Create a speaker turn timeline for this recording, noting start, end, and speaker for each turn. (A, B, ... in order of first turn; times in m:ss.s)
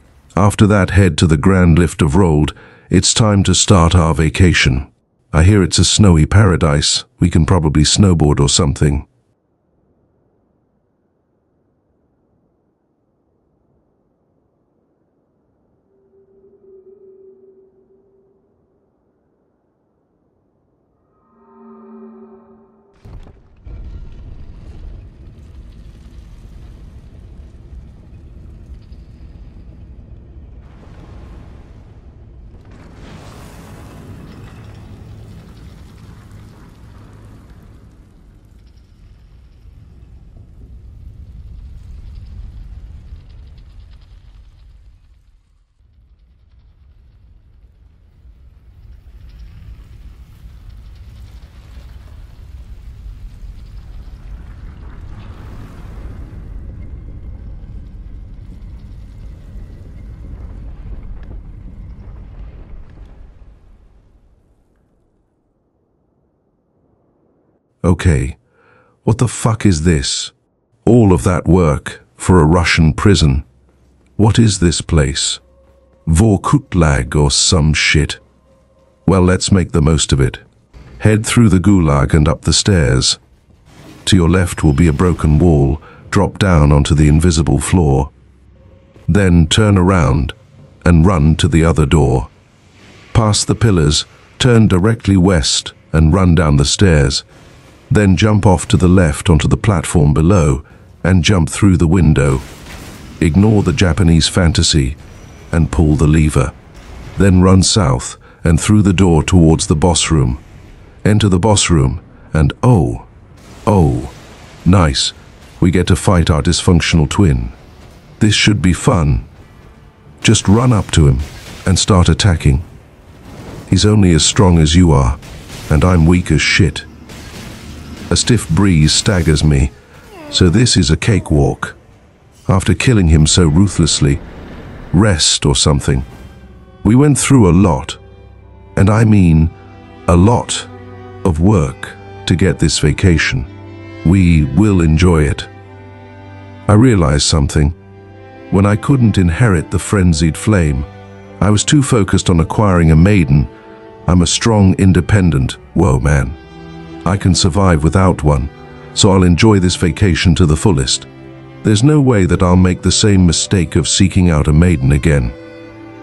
0:00.3-0:09.0 A
1:07.8-1:08.4 A
1:09.0-1:10.3 A
1:10.8-1:13.4 A
1:14.2-1:15.4 A
1:16.0-1:18.2 A
1:19.0-1:20.4 A
1:21.0-1:23.2 A
1:24.0-1:28.1 A
1:29.1-1:32.3 A
1:33.1-1:37.2 A
1:37.9-1:42.4 A
1:43.2-1:45.0 A
1:45.5-1:46.5 A
1:47.2-1:50.4 A
1:51.0-1:53.1 A
1:53.6-1:57.6 A
1:58.2-1:59.3 A
2:00.2-2:02.6 A
2:03.7-2:06.9 A
2:08.1-2:09.7 A
2:10.3-2:11.8 A
2:12.5-2:14.2 A
2:14.9-2:16.1 A
2:16.8-2:18.0 A
2:18.7-2:19.5 A
2:20.1-2:20.7 A
2:21.2-2:23.5 A
2:24.0-2:25.5 A
2:26.7-2:27.8 A
2:28.5-2:33.5 A
2:34.0-2:36.4 A
2:37.0-2:41.1 A
2:41.6-2:45.4 A